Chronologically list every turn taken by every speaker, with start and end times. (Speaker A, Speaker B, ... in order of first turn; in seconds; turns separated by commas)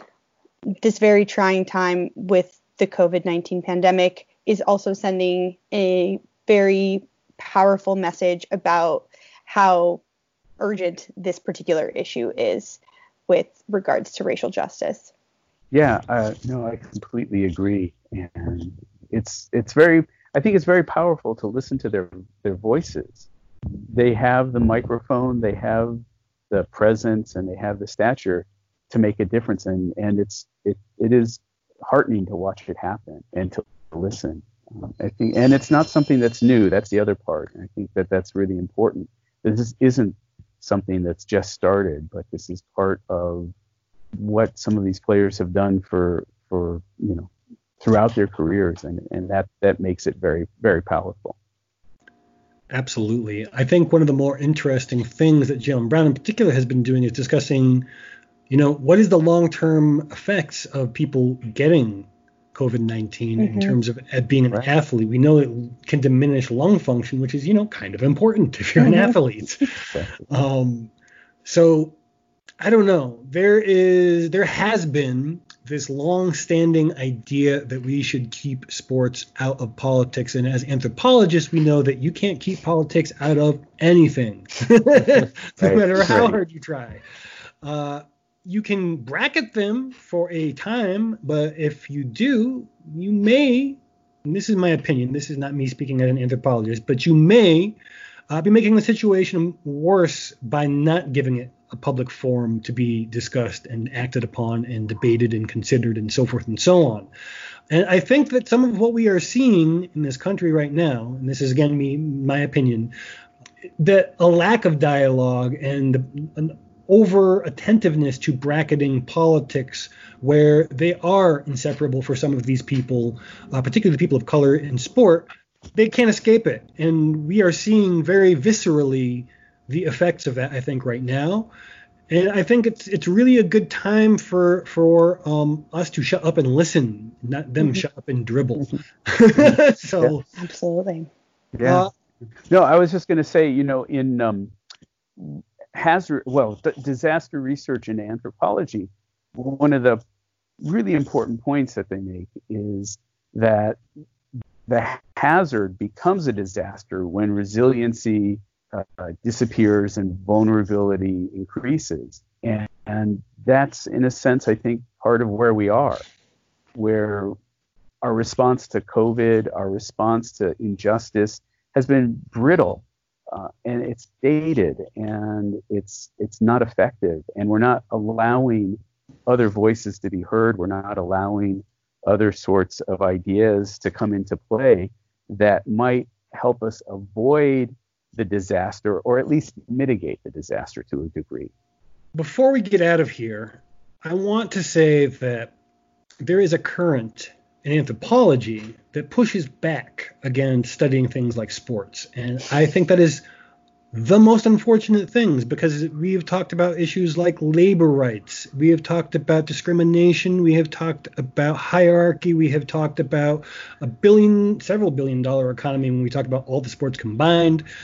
Speaker A: 0.8-10.0, Speaker A: 10.6-15.1, Speaker B: 15.7-23.3, Speaker B: 23.9-43.5, Speaker B: 44.2-51.4, Speaker C: 52.7-57.9, Speaker C: 58.5-70.9, Speaker A: 63.4-63.8, Speaker A: 68.8-69.2, Speaker B: 69.8-70.2, Speaker C: 71.5-72.0, Speaker C: 72.6-87.0, Speaker B: 85.6-86.4, Speaker C: 87.6-97.8, Speaker C: 98.3-107.1, Speaker C: 107.7-112.9, Speaker C: 113.8-131.5, Speaker C: 132.1-140.3, Speaker A: 140.4-141.1, Speaker B: 141.6-141.9, Speaker C: 141.6-141.9, Speaker B: 142.5-144.5, Speaker B: 145.2-150.0, Speaker B: 150.6-153.8, Speaker B: 154.7-166.0, Speaker B: 166.8-167.4, Speaker B: 168.0-191.5, Speaker C: 192.1-195.5, Speaker C: 196.2-203.2, Speaker C: 203.9-217.6